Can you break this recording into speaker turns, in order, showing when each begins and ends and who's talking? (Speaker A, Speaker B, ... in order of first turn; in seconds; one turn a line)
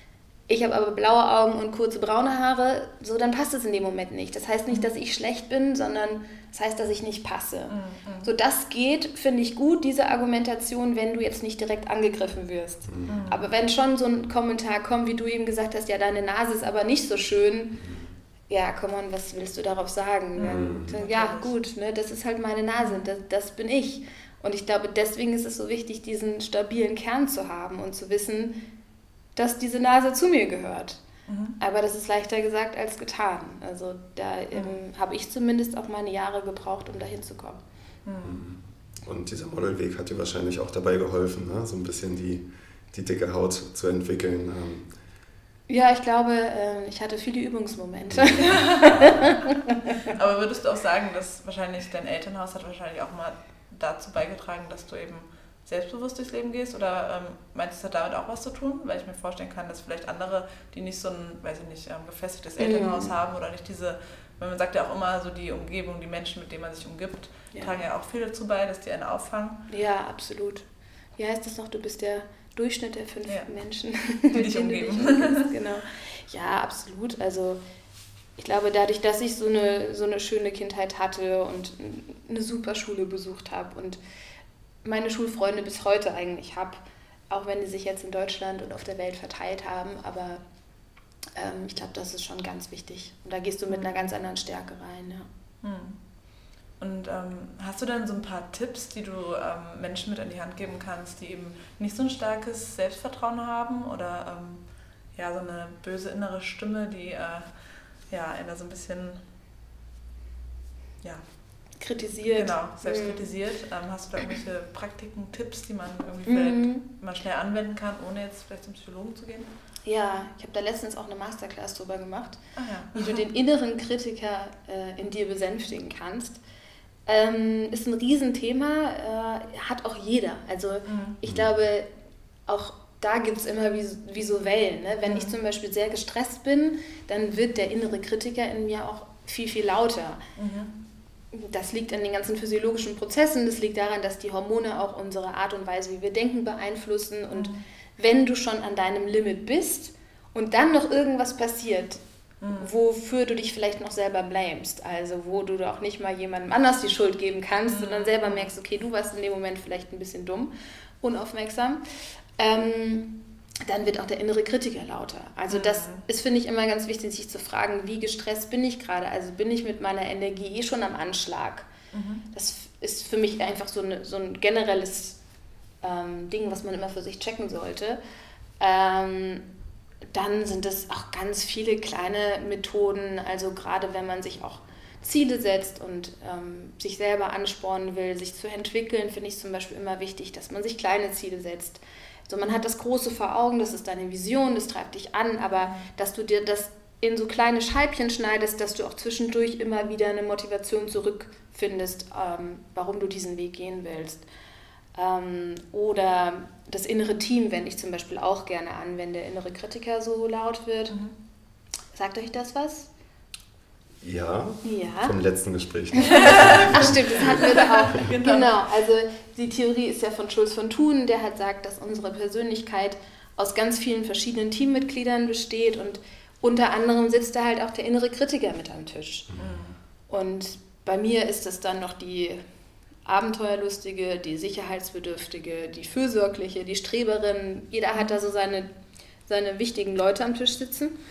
Speaker A: 0.5-17.8
Speaker B: 7.7-8.3
Speaker B: 13.1-13.4
Speaker A: 18.5-28.6
Speaker B: 20.4-21.5
Speaker C: 20.4-20.9
Speaker A: 29.4-31.0
Speaker B: 31.3-31.6
Speaker A: 31.6-37.6
Speaker B: 38.0-38.4
Speaker C: 38.2-44.9
Speaker A: 45.7-49.8
Speaker C: 48.1-49.1
Speaker B: 48.4-49.3
Speaker B: 50.0-69.6
Speaker A: 62.6-63.1
Speaker A: 69.7-70.6
Speaker A: 71.2-77.6
Speaker B: 74.3-75.5
Speaker A: 78.4-84.0
Speaker A: 84.8-90.4
Speaker A: 91.3-95.3
Speaker B: 93.7-94.1
Speaker B: 95.6-96.0
Speaker B: 96.8-104.6
Speaker B: 105.2-107.5
Speaker B: 108.1-109.2
Speaker A: 111.8-113.3
Speaker B: 112.2-119.5
Speaker A: 116.2-116.8
Speaker A: 119.8-122.4
Speaker B: 122.6-123.2
Speaker A: 122.9-126.4
Speaker A: 127.1-131.9
Speaker B: 130.9-131.2
Speaker A: 132.5-140.2
Speaker B: 135.1-135.3
Speaker B: 140.4-140.7
Speaker A: 141.3-152.0
Speaker B: 147.3-147.6
Speaker B: 152.4-152.7
Speaker A: 152.6-161.8
Speaker B: 157.7-158.5
Speaker A: 162.4-163.1
Speaker A: 163.7-171.7
Speaker B: 165.5-166.0
Speaker B: 171.9-172.2
Speaker A: 172.3-175.2
Speaker A: 175.8-178.0
Speaker A: 178.6-179.4
Speaker A: 180.1-204.2
Speaker B: 195.6-195.9
Speaker A: 204.9-211.0
Speaker A: 211.9-212.9
Speaker C: 214.0-217.4
Speaker A: 214.6-215.1
Speaker A: 216.0-229.3
Speaker B: 216.0-218.6
Speaker B: 229.4-229.8
Speaker A: 230.1-232.4
Speaker A: 233.1-238.7
Speaker A: 239.3-240.9